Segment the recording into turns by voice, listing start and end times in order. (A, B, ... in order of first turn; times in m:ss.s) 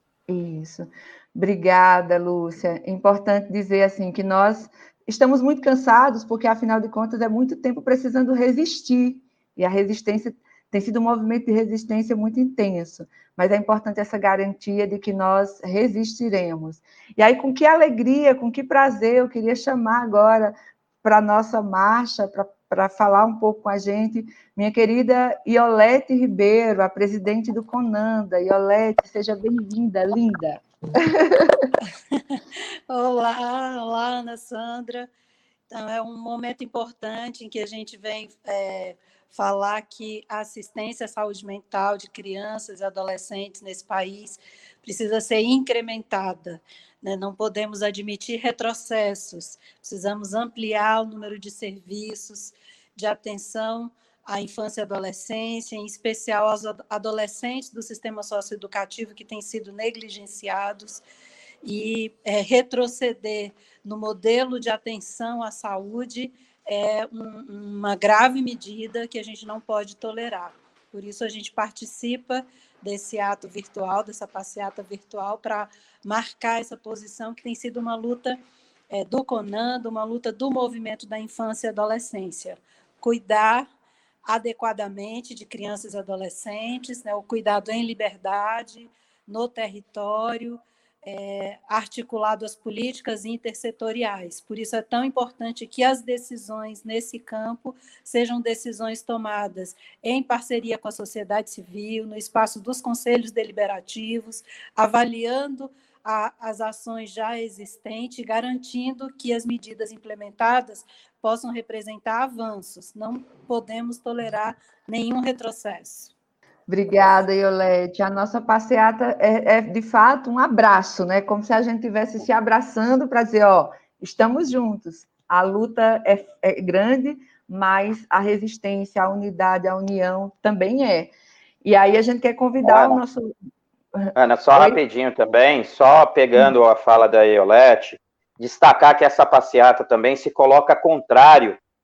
0:00.3-0:31.6 A
0:32.9-0:35.1 B
0:35.7-1:01.0 B
1:01.6-1:18.4 B
1:18.9-1:23.7 B
1:24.3-1:56.1 B
1:56.7-2:11.1 A
2:11.6-2:13.4 A
2:12.6-2:13.0 C
2:14.0-2:14.8 A
2:14.2-2:21.6 C